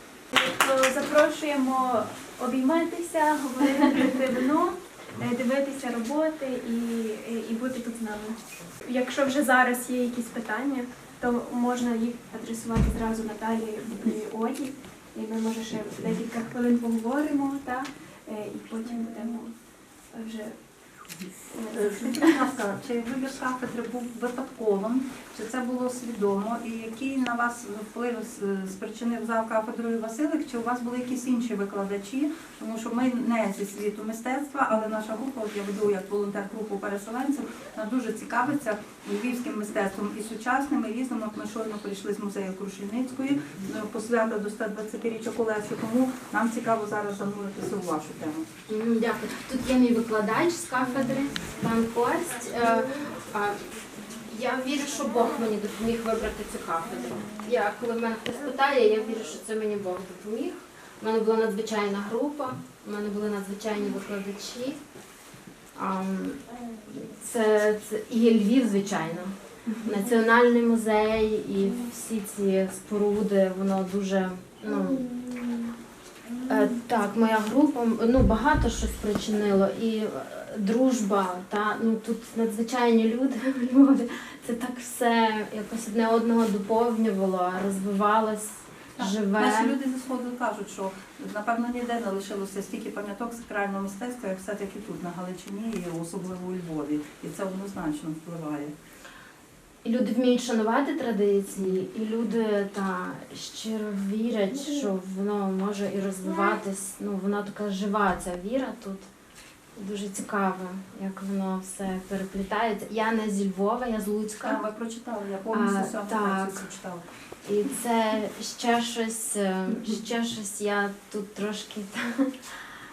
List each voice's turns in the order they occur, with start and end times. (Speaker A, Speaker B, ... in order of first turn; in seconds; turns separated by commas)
Speaker A: 0.3-19.5, Speaker A: 20.1-20.6, Speaker B: 21.7-48.5, Speaker C: 48.7-53.6, Speaker C: 54.3-64.8, Speaker C: 65.8-75.1, Speaker C: 76.5-89.8, Speaker B: 89.0-98.7, Speaker C: 99.8-109.1, Speaker C: 109.8-114.6, Speaker B: 114.4-117.0, Speaker C: 115.5-116.7, Speaker C: 117.5-122.5